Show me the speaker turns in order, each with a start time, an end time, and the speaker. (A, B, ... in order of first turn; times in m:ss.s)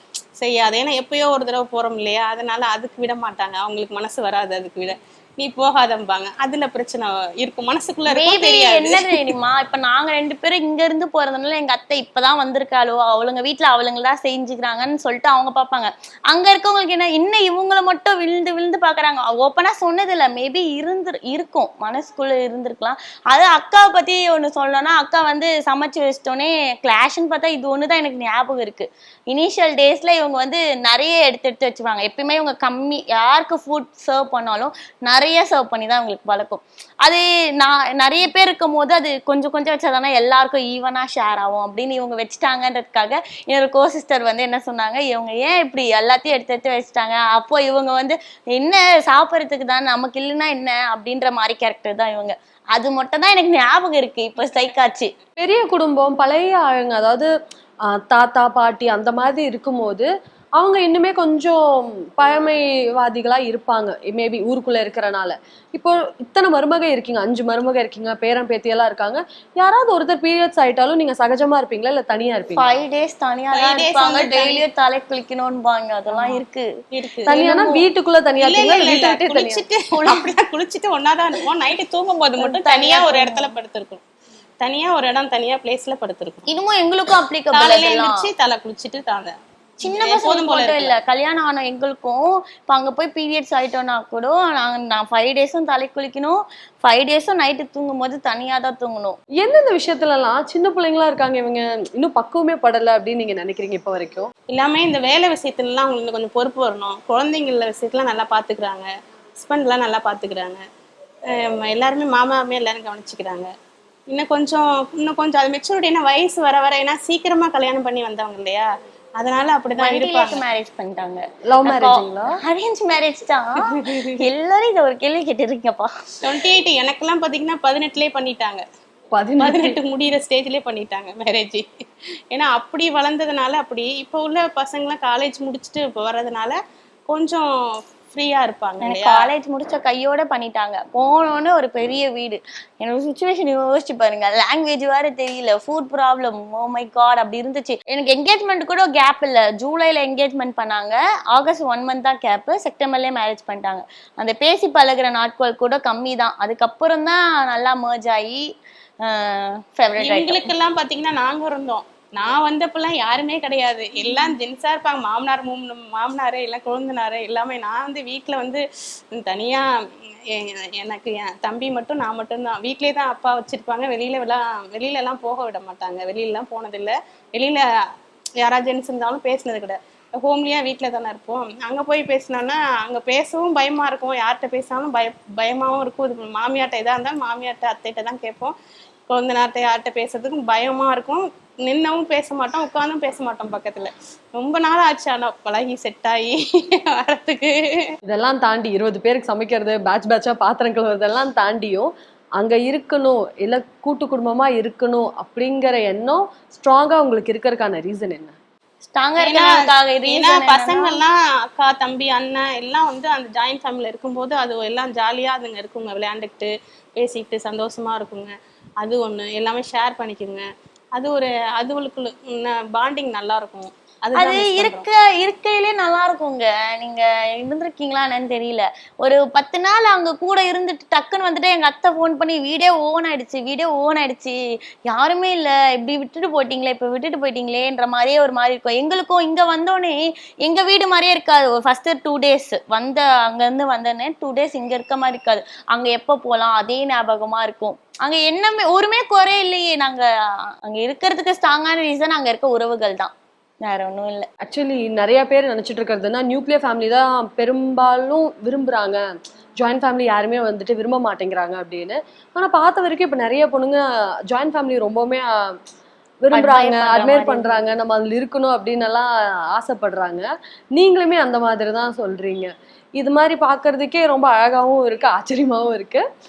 0:00.4-0:09.3 A
0:08.1-0:55.1 B
0:55.4-0:57.3 C
0:57.9-1:12.8 C
1:12.6-1:16.6 B
1:13.5-1:14.6 A
1:16.1-1:16.4 A
1:16.9-1:17.3 A
1:17.3-1:19.6 C
1:17.3-1:17.8 B
1:18.4-1:24.0 A
1:19.9-1:20.2 B
1:22.4-1:23.5 B
1:24.6-1:26.5 A
1:26.5-1:28.2 B
1:27.5-1:30.9 A
1:29.8-1:39.2 B
1:39.4-1:44.3 C
1:44.5-1:48.9 A
1:49.4-1:50.6 A
1:51.3-1:53.5 A
1:54.1-2:00.4 A
1:59.8-2:05.9 B
2:01.5-2:02.3 C
2:06.2-2:08.6 A
2:09.1-2:09.8 C
2:09.4-2:11.6 A
2:12.3-2:16.6 A
2:17.1-2:17.5 A
2:18.1-2:19.3 A
2:18.8-2:38.4 B
2:39.1-2:40.5 B
2:40.0-2:49.6 A
2:50.3-2:57.6 A
2:58.4-3:08.5 A
3:09.1-3:17.9 A
3:18.1-3:28.3 C
3:28.8-3:31.0 B
3:29.2-3:40.4 A
3:41.0-3:44.8 A
3:44.2-3:54.4 B
3:54.9-4:10.1 B
4:10.6-4:13.1 B
4:13.6-4:14.3 B
4:14.4-4:19.0 C
4:19.6-4:25.6 C
4:26.2-4:36.0 C
4:26.3-4:27.7 B